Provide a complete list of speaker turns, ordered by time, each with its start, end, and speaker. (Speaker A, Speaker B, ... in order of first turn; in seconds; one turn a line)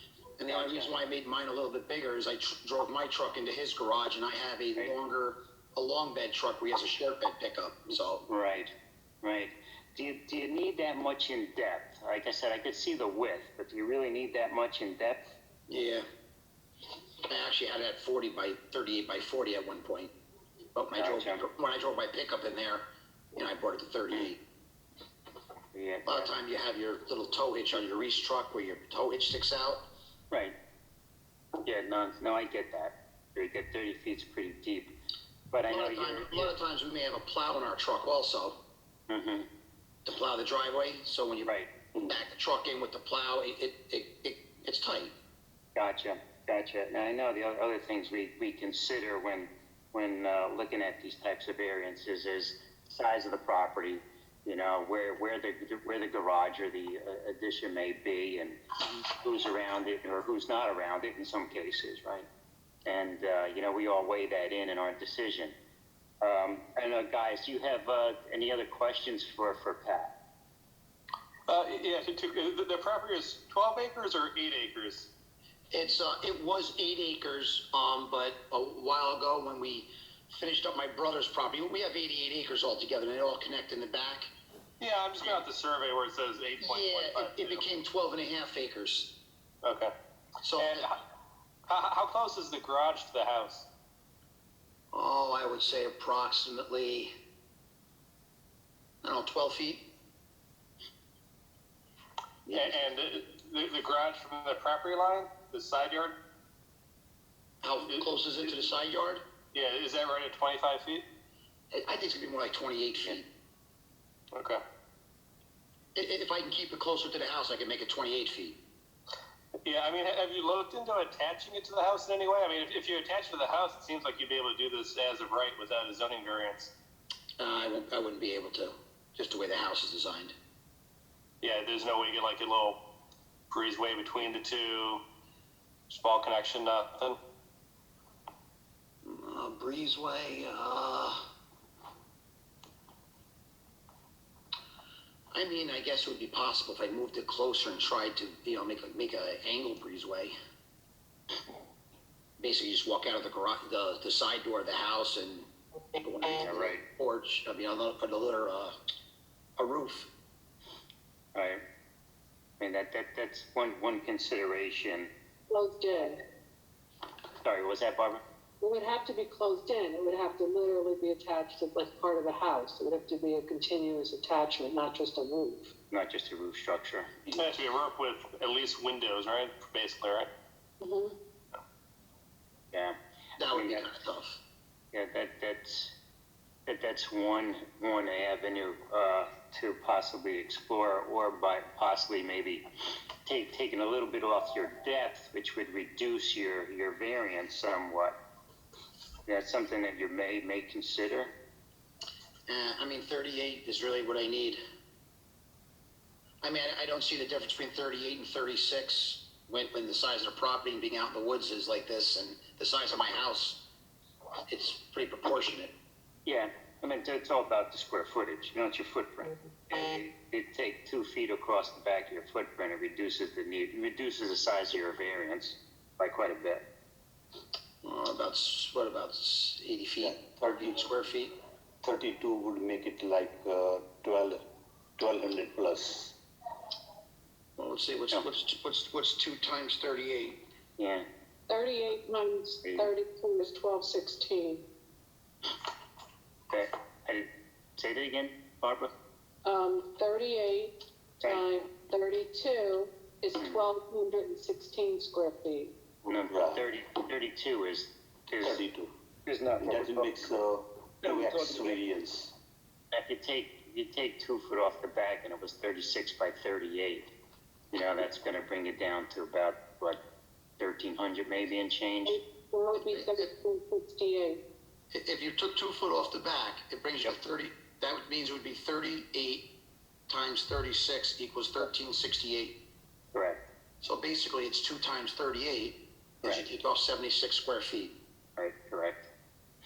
Speaker A: 0.4-8.2
Speaker B: 0.5-0.9
Speaker B: 8.3-8.7
Speaker B: 9.2-15.3
Speaker A: 15.7-16.1
Speaker A: 17.3-20.1
Speaker A: 20.7-24.4
Speaker B: 20.9-21.4
Speaker B: 25.7-26.3
Speaker A: 26.1-29.8
Speaker B: 31.6-34.9
Speaker B: 35.5-36.5
Speaker A: 35.7-38.6
Speaker B: 39.1-39.5
Speaker A: 40.0-45.1
Speaker B: 41.4-41.7
Speaker B: 45.7-58.6
Speaker B: 59.1-62.3
Speaker B: 62.9-65.5
Speaker B: 66.2-70.1
Speaker C: 71.6-74.8
Speaker A: 75.7-84.3
Speaker C: 84.8-87.7
Speaker A: 86.6-89.1
Speaker A: 90.4-90.8
Speaker C: 90.5-90.9
Speaker C: 91.7-93.6
Speaker A: 94.9-97.1
Speaker A: 99.0-99.9
Speaker A: 102.5-102.9
Speaker C: 102.5-106.2
Speaker A: 107.6-109.2
Speaker C: 107.8-108.5
Speaker C: 109.5-111.0
Speaker A: 111.7-113.3
Speaker A: 115.9-118.6
Speaker C: 119.6-126.7
Speaker A: 127.4-130.3
Speaker C: 131.4-132.8
Speaker C: 133.5-135.0
Speaker C: 135.9-137.2
Speaker A: 139.0-141.3
Speaker A: 145.3-150.3
Speaker A: 152.4-158.8
Speaker B: 156.4-156.8
Speaker A: 159.6-160.1
Speaker B: 161.3-161.6
Speaker B: 162.6-165.1
Speaker D: 165.5-166.2
Speaker B: 167.4-168.2
Speaker D: 168.6-175.7
Speaker B: 175.9-177.1
Speaker C: 177.3-180.3
Speaker D: 180.8-181.2
Speaker B: 182.7-183.8
Speaker A: 183.4-184.4
Speaker B: 184.9-185.9
Speaker B: 186.7-192.7
Speaker B: 193.2-198.2
Speaker B: 199.3-201.3
Speaker A: 202.5-204.6
Speaker A: 206.4-213.6
Speaker A: 214.5-215.7
Speaker B: 216.2-226.6
Speaker A: 227.8-231.3
Speaker E: 230.0-230.8
Speaker E: 231.8-234.4
Speaker E: 235.0-236.2
Speaker A: 237.6-240.4
Speaker B: 240.8-241.1
Speaker D: 241.5-244.7
Speaker B: 242.6-242.9
Speaker B: 246.5-248.9
Speaker D: 249.4-255.7
Speaker B: 253.4-253.7
Speaker B: 256.1-258.6
Speaker E: 256.1-256.7
Speaker E: 258.4-258.9
Speaker B: 259.2-260.3
Speaker E: 259.6-262.3
Speaker B: 261.0-261.8
Speaker B: 262.9-267.1
Speaker B: 267.7-270.0
Speaker B: 270.6-272.2
Speaker D: 272.0-274.4
Speaker A: 272.7-273.3
Speaker A: 274.9-279.5
Speaker A: 280.1-282.6
Speaker B: 283.1-283.4
Speaker A: 283.8-287.9
Speaker B: 288.4-289.1